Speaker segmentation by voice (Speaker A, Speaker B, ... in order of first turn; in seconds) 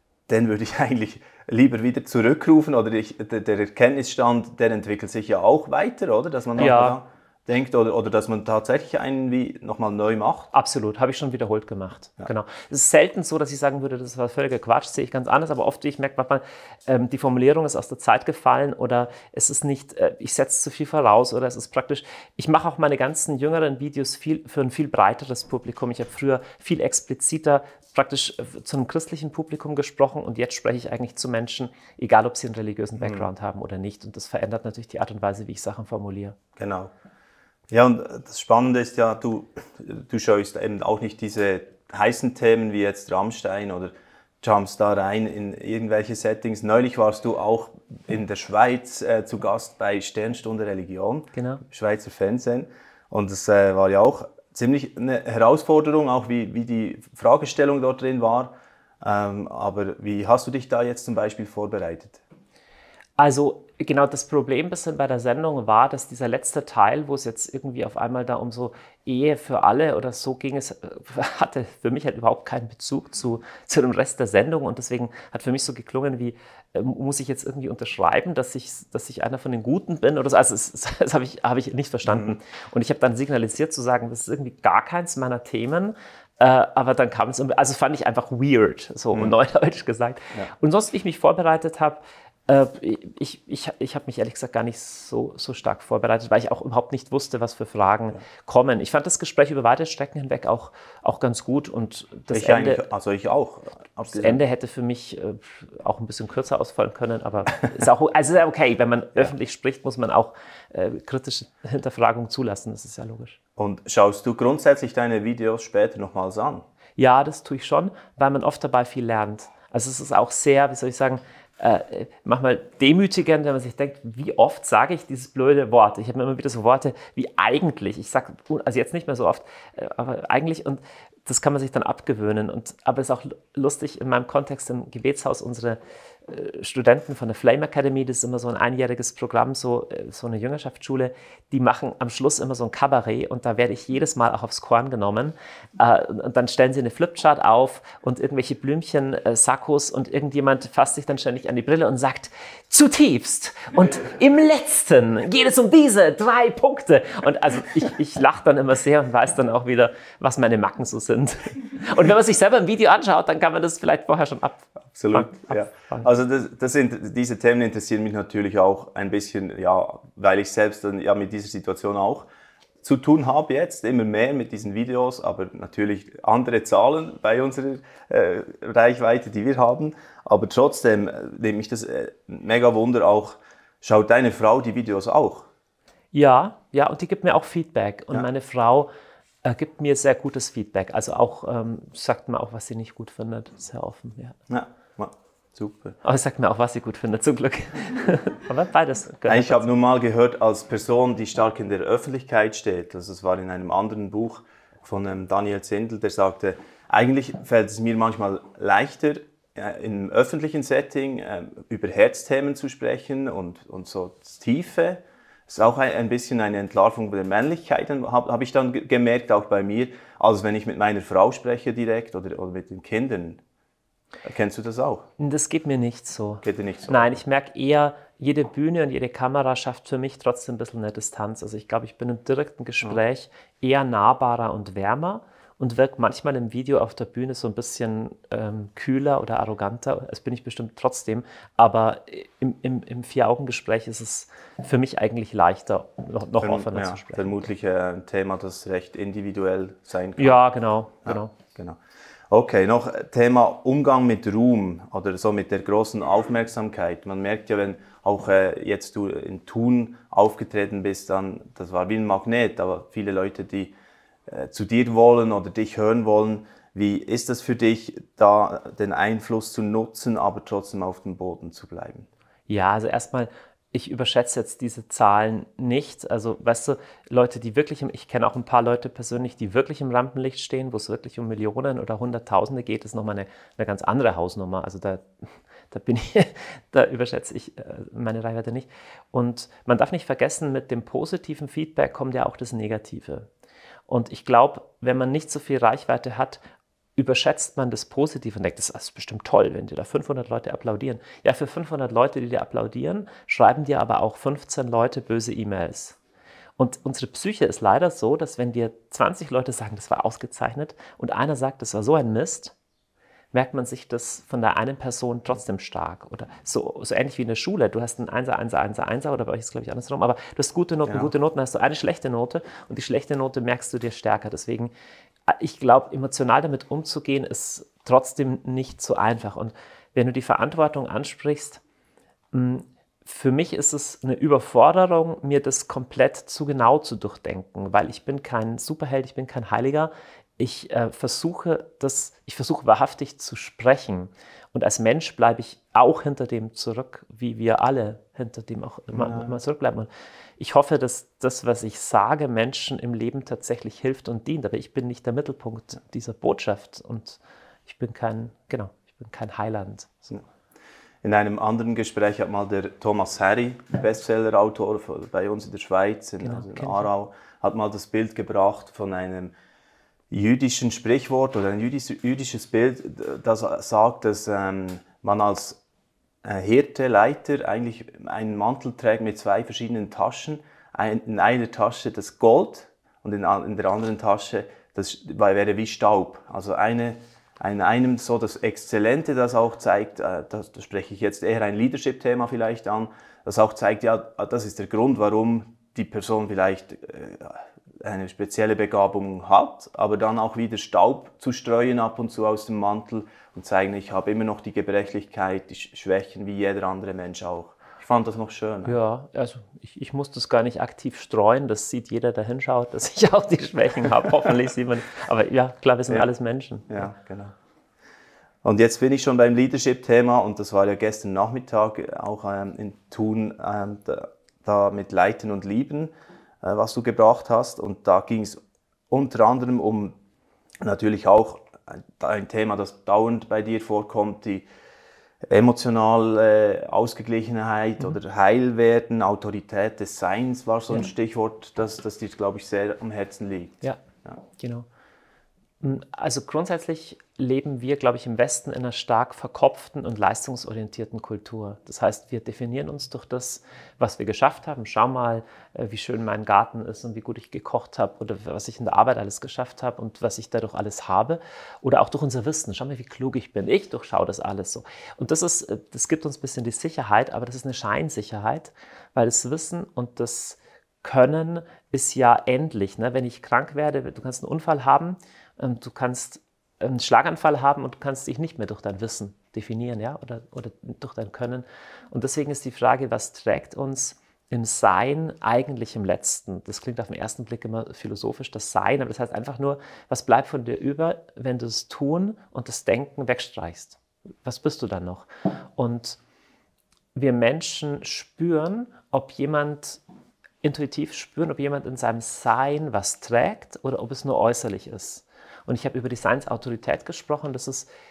Speaker A: 0.3-10.5, 33.0-33.3, 36.6-36.9, 37.7-62.2, 82.1-82.4, 102.3-104.4, 113.6-116.7, 164.9-172.3, 172.8-185.5, 194.5-196.0, 199.3-223.4, 224.2-225.1, 226.4-227.2, 246.4-250.4, 251.1-251.8, 252.3-263.8, 264.3-272.1, 320.9-321.1, 348.9-349.3, 361.0-369.4, 370.1-375.6, 376.2-408.8, 416.7-417.4, 418.4-428.4, 428.9-430.0, 430.6-434.5, 435.3-444.2
Speaker B: 6.6-7.0, 10.5-36.4, 51.4-51.6, 63.2-102.8, 104.1-113.3, 117.0-166.1, 186.1-188.9, 189.4-194.4, 196.0-199.7, 225.2-247.5, 250.2-251.3, 272.5-285.1, 285.7-293.3, 293.9-296.4, 297.0-306.0, 306.6-312.6, 313.3-324.7, 325.3-331.6, 332.3-349.9, 350.4-360.1, 366.2-366.9, 408.7-416.9, 444.4-444.7, 445.6-496.0, 496.9-499.8, 500.4-507.7